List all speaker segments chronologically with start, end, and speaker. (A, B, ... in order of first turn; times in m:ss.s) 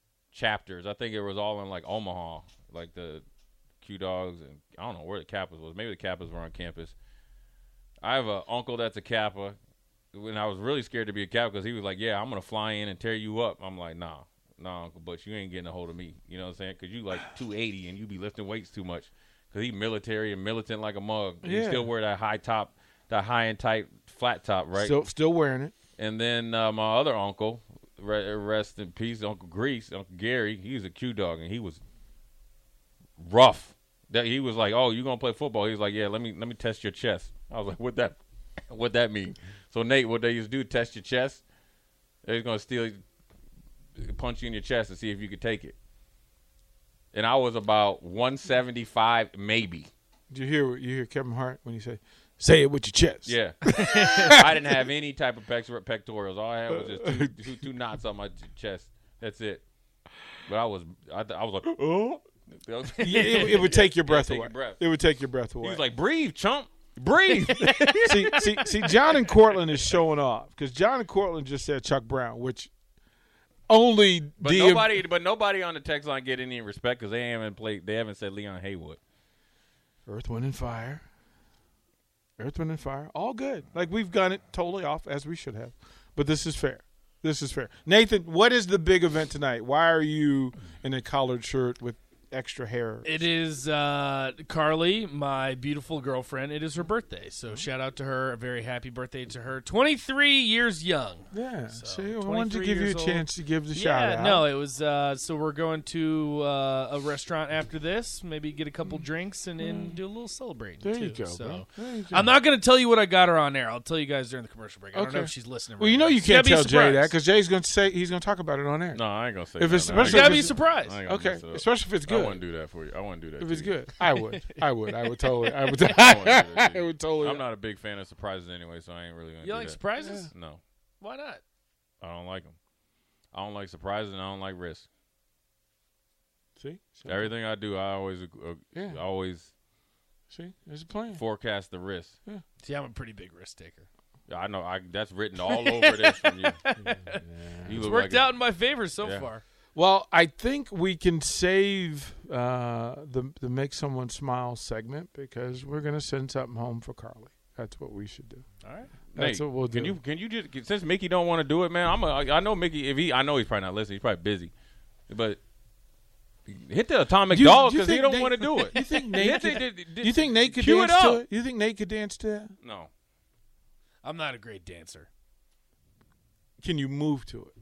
0:00.3-0:03.2 A
0:03.8-0:07.0 A
0:08.0-0:09.6 A
0:10.1-0:25.0 A
0:21.4-0:21.9 B
0:24.8-0:25.7 B
0:26.0-0:31.8 A
0:33.2-0:41.4 A
0:42.2-0:43.0 A
0:44.0-0:45.8 A
0:47.1-0:49.9 A
0:50.3-0:54.7 B
0:53.2-0:53.6 A
0:53.8-0:54.4 C
0:54.2-0:59.6 A
0:56.7-0:57.5 B
1:00.5-1:04.8 A
1:03.0-1:03.5 C
1:03.0-1:05.8 B
1:05.6-1:08.7 A
1:07.5-1:08.0 C
1:08.0-1:12.7 B
1:13.7-1:15.0 B
1:14.4-1:19.0 A
1:20.1-1:21.0 B
1:22.4-1:33.3 B
1:33.0-1:57.2 C
1:41.3-1:44.5 B
1:49.6-1:50.0 B
1:50.8-1:52.3 B
1:54.9-1:59.0 B
1:58.9-2:03.8 A
1:59.6-2:02.4 B
1:59.9-2:01.0 C
2:03.4-2:07.4 B
2:04.0-2:04.6 C
2:05.9-2:09.8 A
2:09.4-2:10.3 C
2:10.0-2:10.3 B
2:10.3-2:10.6 A
2:11.0-2:11.4 C
2:12.0-2:12.6 A
2:13.3-2:14.9 A
2:16.6-2:17.3 B
2:17.0-2:19.5 A
2:18.7-2:19.0 B
2:20.3-2:21.2 B
2:21.1-2:22.2 A
2:22.6-2:23.9 C
2:24.3-2:26.6 A
2:25.4-2:27.2 C
2:27.1-2:27.9 B
2:27.6-2:28.4 A
2:27.8-2:29.4 C
2:29.0-2:29.3 A
2:29.8-2:38.5 B
2:38.6-2:38.9 C
2:39.1-2:44.5 A
2:39.2-2:40.0 B
2:45.1-2:45.4 A
2:46.5-2:51.2 A
2:47.3-2:52.5 B
2:48.7-2:49.4 C
2:52.6-2:52.9 A
2:54.0-2:55.1 C
2:56.6-2:57.5 B